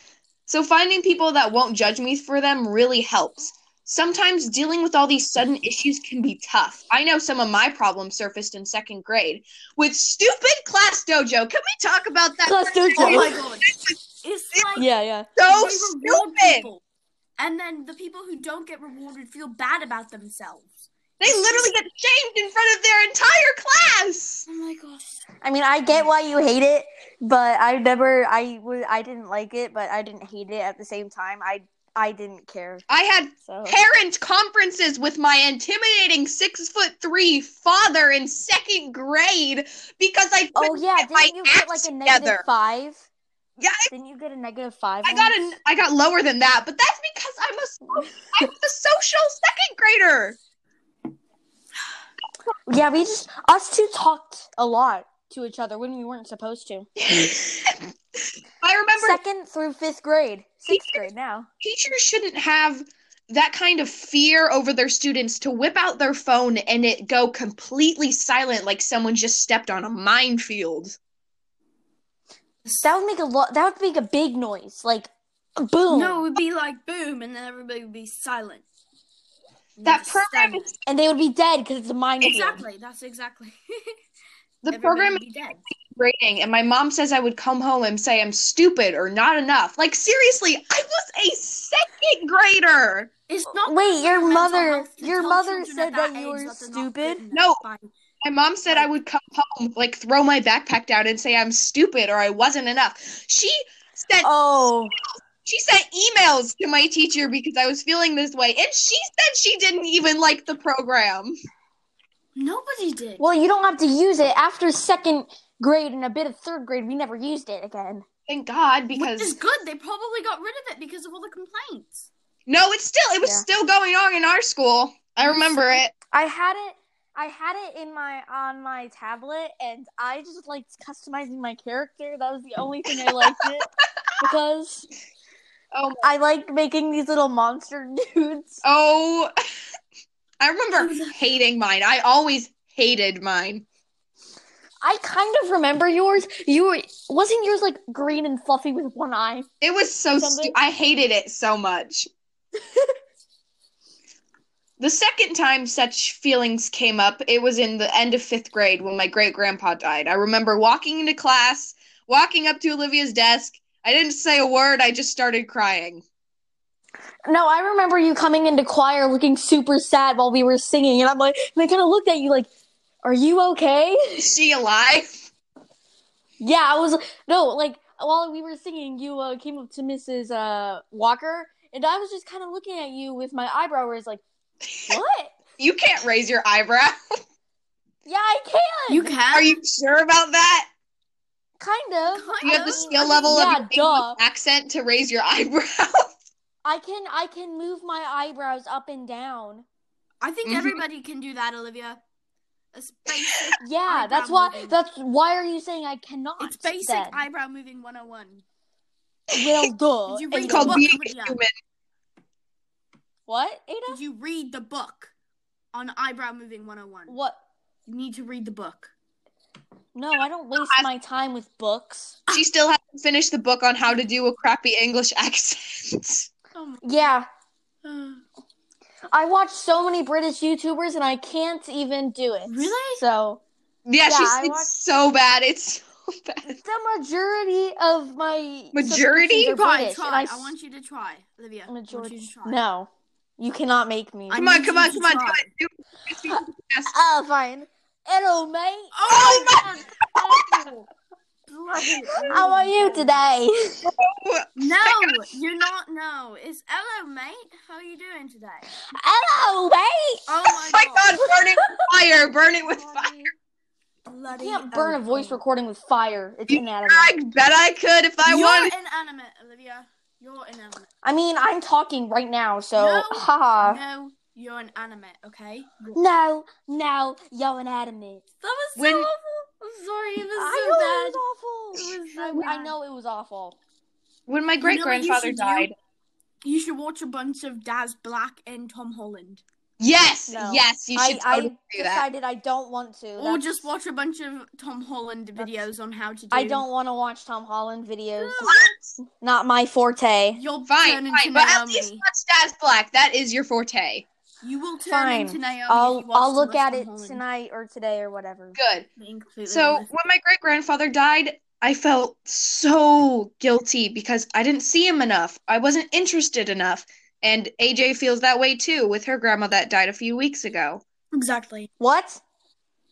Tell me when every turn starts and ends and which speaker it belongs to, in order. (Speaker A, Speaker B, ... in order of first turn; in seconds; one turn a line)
Speaker A: 0.5-14.0
Speaker B: 12.4-13.3
Speaker C: 13.0-14.9
Speaker B: 14.8-15.3
Speaker A: 15.4-16.7
Speaker C: 15.5-16.8
Speaker C: 17.4-20.7
Speaker A: 21.2-24.5
Speaker C: 21.2-21.7
Speaker C: 24.5-25.2
Speaker B: 25.4-32.9
Speaker A: 32.9-42.4
Speaker B: 33.5-33.8
Speaker B: 40.5-43.0
Speaker A: 43.6-43.9
Speaker B: 43.9-45.4
Speaker A: 45.0-50.4
Speaker B: 52.7-56.9
Speaker A: 57.0-57.8
Speaker A: 58.6-59.2
Speaker B: 59.0-61.5
Speaker A: 60.7-61.1
Speaker A: 61.6-71.0
Speaker C: 72.7-72.9
Speaker B: 72.8-76.2
Speaker C: 75.9-78.6
Speaker C: 79.8-80.7
Speaker A: 79.8-80.7
Speaker B: 80.9-82.6
Speaker C: 82.2-84.0
Speaker A: 84.6-93.1
Speaker C: 84.7-85.6
Speaker C: 93.3-97.9
Speaker B: 93.6-97.2
Speaker A: 97.3-97.6
Speaker A: 98.2-104.3
Speaker B: 104.2-104.9
Speaker A: 105.4-111.3
Speaker C: 112.4-113.2
Speaker B: 113.2-118.1
Speaker A: 118.3-119.4
Speaker C: 119.0-122.1
Speaker A: 122.5-125.9
Speaker C: 125.2-125.8
Speaker B: 126.1-133.7
Speaker B: 134.2-134.9
Speaker A: 135.7-136.0
Speaker B: 136.0-138.6
Speaker A: 138.6-139.3
Speaker A: 140.4-143.7
Speaker C: 140.8-141.2
Speaker B: 144.8-149.5
Speaker A: 149.6-152.1
Speaker B: 150.2-150.6
Speaker A: 154.8-166.0
Speaker B: 167.3-172.5
Speaker B: 173.0-174.3
Speaker A: 174.2-175.1
Speaker B: 176.4-184.2
Speaker B: 184.9-185.4
Speaker A: 185.6-187.0
Speaker B: 188.1-189.2
Speaker C: 188.9-189.6
Speaker A: 189.3-190.7
Speaker B: 191.6-194.2
Speaker C: 192.1-193.6
Speaker A: 192.4-196.1
Speaker B: 196.6-199.7
Speaker C: 200.2-202.0
Speaker A: 200.4-200.8
Speaker C: 202.7-204.8
Speaker B: 203.6-207.2
Speaker C: 206.4-208.4
Speaker B: 209.3-210.8
Speaker C: 210.1-211.4
Speaker A: 210.3-211.5
Speaker B: 213.3-214.0
Speaker C: 213.9-215.1
Speaker C: 215.7-217.2
Speaker B: 217.1-217.4
Speaker C: 217.9-218.9
Speaker B: 219.9-222.2
Speaker A: 220.6-220.9
Speaker A: 222.3-226.3
Speaker C: 226.6-227.2
Speaker B: 226.8-227.3
Speaker C: 227.8-228.2
Speaker B: 229.1-233.4
Speaker C: 232.5-233.0
Speaker A: 233.9-236.6
Speaker B: 234.0-234.7
Speaker B: 236.5-240.5
Speaker A: 238.7-239.6
Speaker C: 239.5-242.6
Speaker B: 241.7-244.5
Speaker C: 244.3-245.5
Speaker A: 244.3-246.9
Speaker B: 246.3-248.9
Speaker C: 248.9-250.9
Speaker A: 249.1-250.4
Speaker C: 251.5-253.2
Speaker B: 252.2-253.8
Speaker A: 253.8-255.2
Speaker C: 254.6-258.7
Speaker B: 258.9-260.2
Speaker C: 260.3-261.2
Speaker A: 260.5-263.3
Speaker B: 261.2-261.7
Speaker C: 262.8-263.2
Speaker C: 264.1-265.4
Speaker B: 264.3-267.1
Speaker A: 266.5-268.7
Speaker C: 268.2-270.9
Speaker B: 271.0-273.8
Speaker C: 272.8-276.0
Speaker B: 275.9-278.2
Speaker C: 278.4-281.2
Speaker A: 278.8-279.1
Speaker B: 280.4-283.6
Speaker C: 282.1-282.8
Speaker A: 284.3-285.8
Speaker C: 284.6-285.7
Speaker C: 286.4-289.4
Speaker A: 289.8-292.1
Speaker B: 290.3-293.7
Speaker C: 293.2-296.6
Speaker B: 296.3-300.4
Speaker C: 298.2-298.7
Speaker A: 298.4-298.9
Speaker C: 300.3-302.0
Speaker A: 300.7-304.1
Speaker C: 304.4-307.2
Speaker B: 304.9-308.6
Speaker A: 308.6-308.9
Speaker C: 309.0-309.9
Speaker A: 309.5-320.8
Speaker C: 321.1-321.7
Speaker B: 321.8-322.2